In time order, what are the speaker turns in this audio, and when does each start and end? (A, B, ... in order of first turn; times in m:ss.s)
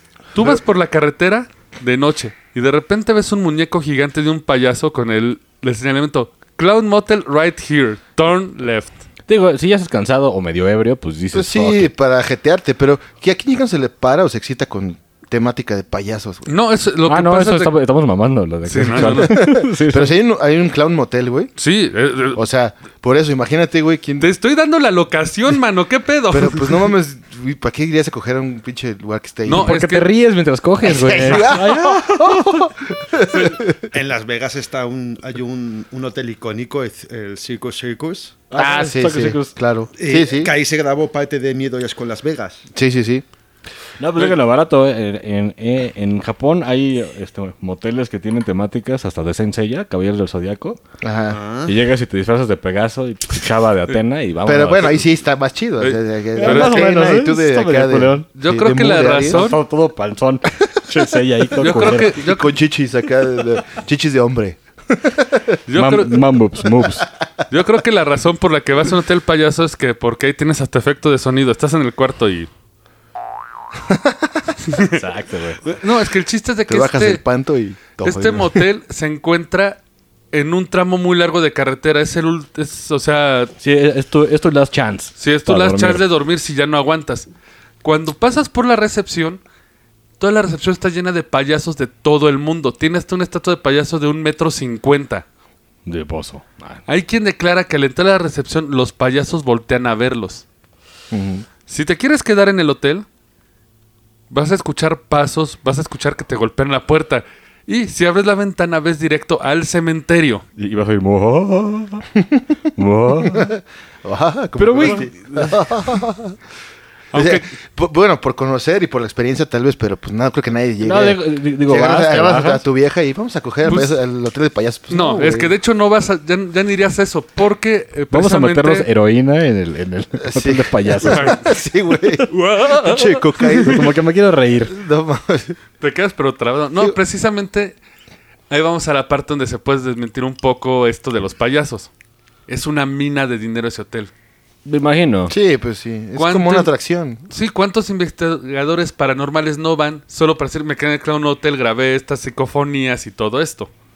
0:00.3-0:09.0 A
0:09.3-0:11.9 B
0:11.3-0:16.5 C
0:16.5-0:17.8 A
0:17.1-0:20.1 B
0:18.6-0:19.4 A
0:19.0-0:21.5 C
0:21.6-0:22.4 A
0:22.4-0:24.3 C
0:24.2-0:26.8 A
0:26.3-0:29.7 C
0:29.4-0:30.1 A
0:29.5-0:32.7 B
0:30.8-0:33.9 C
0:33.9-0:38.4 D
0:38.5-0:39.6 B
0:38.6-0:40.5 C
0:40.0-0:42.6 D
0:42.7-0:43.2 C
0:44.0-0:50.8 B
0:51.0-0:51.4 C
0:51.3-0:51.8 D
0:51.6-0:55.1 B
0:54.4-0:59.5 C
0:55.8-0:56.9 A
0:56.4-0:58.3 B
0:58.4-0:59.6 A
0:58.9-1:02.2 B
1:01.6-1:02.5 A
1:01.6-1:05.6 C
1:05.7-1:06.2 A
1:05.8-1:07.1 B
1:07.5-1:12.5 A
1:13.9-1:14.4 C
1:14.7-1:15.0 A
1:14.9-1:15.6 B
1:15.6-1:17.2 A
1:16.7-1:18.6 C
1:18.0-1:19.8 A
1:20.3-1:23.5 A
1:23.6-1:26.0 B
1:25.2-1:27.3 A
1:27.8-1:29.4 A
1:30.2-1:35.2 A
1:35.9-1:36.8 B
1:36.9-1:40.4 A
1:41.1-1:41.5 C
1:41.7-1:43.1 A
1:44.3-1:50.4 A
1:50.6-1:52.1 B
1:52.8-1:53.5 B
1:53.2-1:56.4 C
1:54.6-1:56.0 B
1:57.1-1:57.5 A
1:57.1-2:05.5 C
2:00.8-2:02.6 B
2:03.7-2:04.0 A
2:04.9-2:08.9 A
2:08.1-2:11.4 B
2:10.2-2:13.9 C
2:11.0-2:11.4 A
2:12.3-2:13.8 A
2:13.6-2:14.8 B
2:14.7-2:15.6 C
2:15.8-2:17.8 A
2:18.5-2:21.9 A
2:22.5-2:24.1 A
2:24.6-2:25.4 B
2:25.3-2:27.2 C
2:26.2-2:26.7 A
2:27.3-2:33.7 A